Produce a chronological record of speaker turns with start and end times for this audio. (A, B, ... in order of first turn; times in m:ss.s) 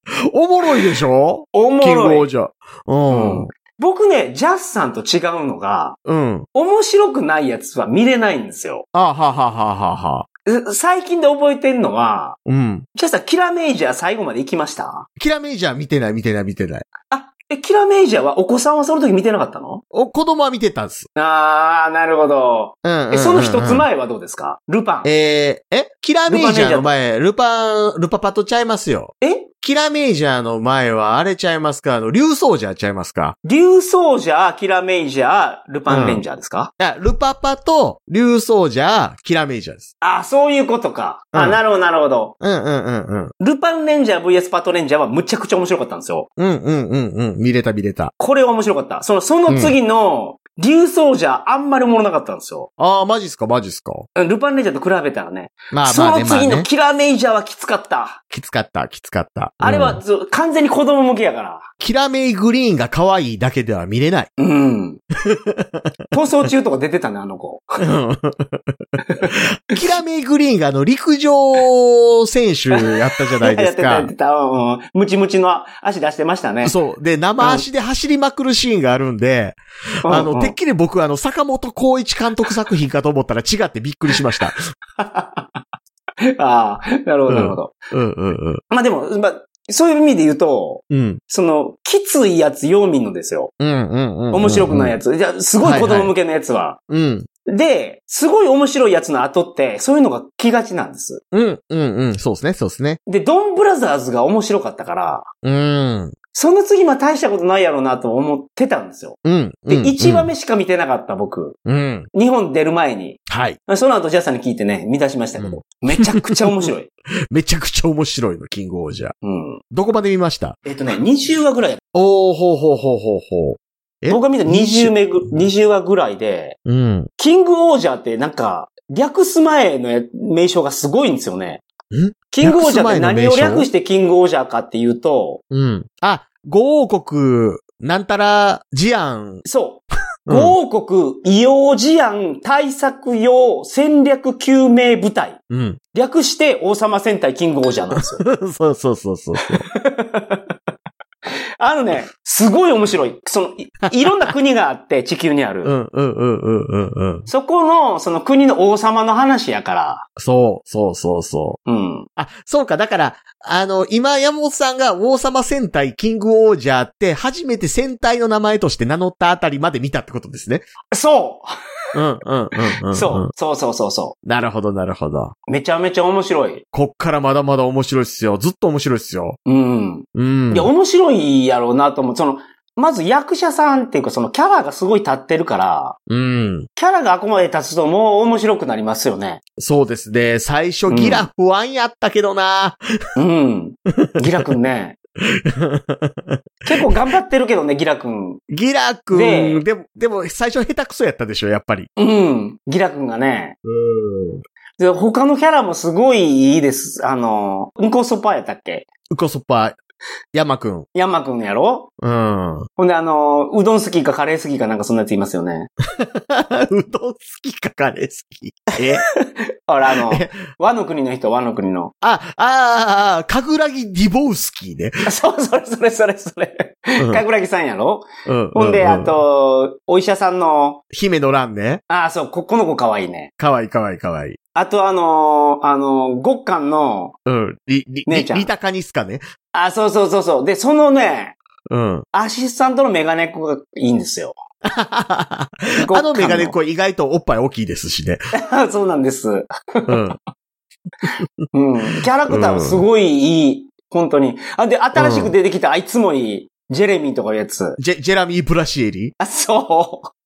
0:00.2-0:03.5 A
0:01.5-0:02.3 B
0:03.1-0:06.0 B
0:06.0-0:06.5 A
0:06.5-0:08.8 B
0:08.9-0:10.2 A
0:10.5-0:12.4 B
0:12.4-0:12.8 A
0:12.9-0:15.1 B
0:15.2-0:16.8 A
0:17.1-0:19.8 B
0:19.9-0:21.1 A
0:21.2-0:25.1 B
0:22.8-0:23.8 A
0:25.0-0:33.4 A
0:26.3-0:26.9 B
0:29.2-0:29.5 B
0:33.4-0:36.7 B
0:35.9-0:36.2 A
0:36.8-0:39.9 A
0:40.0-0:42.3 B
0:41.3-0:41.6 A
0:42.4-0:43.3 A
0:43.4-0:46.3 B
0:46.4-0:48.1 A
0:48.2-0:52.7 B
0:49.5-0:49.8 A
0:52.8-0:54.1 A
0:54.2-0:58.2 B
0:55.7-0:56.7 A
0:58.3-1:00.0 A
0:59.6-1:01.7 B
1:01.8-1:04.3 A
1:04.4-1:05.0 B
1:05.2-1:05.8 A
1:06.1-1:07.9 B
1:07.8-1:14.1 A
1:09.1-1:09.3 B
1:12.7-1:16.7 B
1:16.6-1:24.7 A
1:20.0-1:20.6 B
1:25.0-1:25.5 B
1:26.2-1:27.7 B
1:27.3-1:28.6 A
1:28.7-1:33.5 B
1:30.9-1:31.2 A
1:33.6-1:35.0 A
1:34.3-1:36.8 B
1:35.6-1:36.1 A
1:36.9-1:37.3 A
1:37.4-1:41.2 B
1:41.3-1:43.0 A
1:43.0-1:45.3 B
1:45.4-1:46.1 A
1:46.3-1:49.2 B
1:49.2-1:50.3 A
1:49.7-1:51.6 B
1:51.6-1:52.1 A
1:52.1-1:56.9 B
1:53.3-1:53.6 A
1:55.4-1:56.7 A
1:57.3-1:59.1 A
1:59.2-1:59.6 B
1:59.7-2:00.6 A
2:00.6-2:01.8 B
2:01.9-2:05.5 A
2:04.1-2:06.6 B
2:06.6-2:07.1 A
2:07.2-2:11.6 B
2:11.9-2:13.7 A
2:12.3-2:15.4 B
2:15.5-2:19.4 A
2:19.4-2:25.4 B
2:20.3-2:20.6 A
2:25.5-2:25.8 A
2:25.9-2:28.2 B
2:27.9-2:29.6 A
2:29.4-2:30.5 B
2:31.6-2:35.7 B
2:35.6-2:37.3 A
2:37.3-2:40.0 B
2:40.2-2:41.6 A
2:41.6-2:42.1 B
2:42.2-2:50.6 A
2:50.9-2:51.5 B
2:51.9-2:53.3 A
2:52.7-2:54.2 B
2:54.2-2:55.3 A
2:55.5-2:56.6 B
2:56.7-2:59.4 A
2:59.4-3:06.0 B
3:00.1-3:00.7 A
3:06.1-3:06.7 A
3:06.8-3:09.4 B
3:09.6-3:12.8 A
3:10.9-3:11.3 B
3:13.2-3:15.0 B
3:14.0-3:14.5 A
3:15.3-3:16.4 A
3:16.6-3:18.4 B
3:18.5-3:21.9 A
3:19.1-3:19.6 B
3:22.0-3:23.6 B
3:23.6-3:24.4 A
3:24.8-3:28.8 B
3:29.1-3:29.8 A
3:30.3-3:30.9 A
3:30.9-3:31.9 B
3:32.0-3:32.7 A
3:32.8-3:35.7 B
3:36.0-3:39.0 A
3:39.2-3:41.9 B
3:40.1-3:40.4 A
3:42.0-3:45.1 A
3:45.0-3:50.8 B
3:47.0-3:47.2 A
3:48.2-3:49.1 A
3:50.9-3:51.8 A
3:51.9-3:53.3 B
3:53.4-3:54.4 A
3:54.5-3:57.1 B
3:57.2-3:59.2 A
3:58.0-3:58.5 B
3:59.5-4:01.4 B
4:01.7-4:02.0 A
4:02.1-4:04.4 B
4:04.6-4:08.3 A
4:05.8-4:06.6 B
4:08.3-4:10.1 B
4:09.8-4:10.2 A
4:11.5-4:17.8 B
4:12.3-4:12.8 A
4:15.0-4:15.3 A
4:17.8-4:19.1 A
4:19.2-4:20.1 B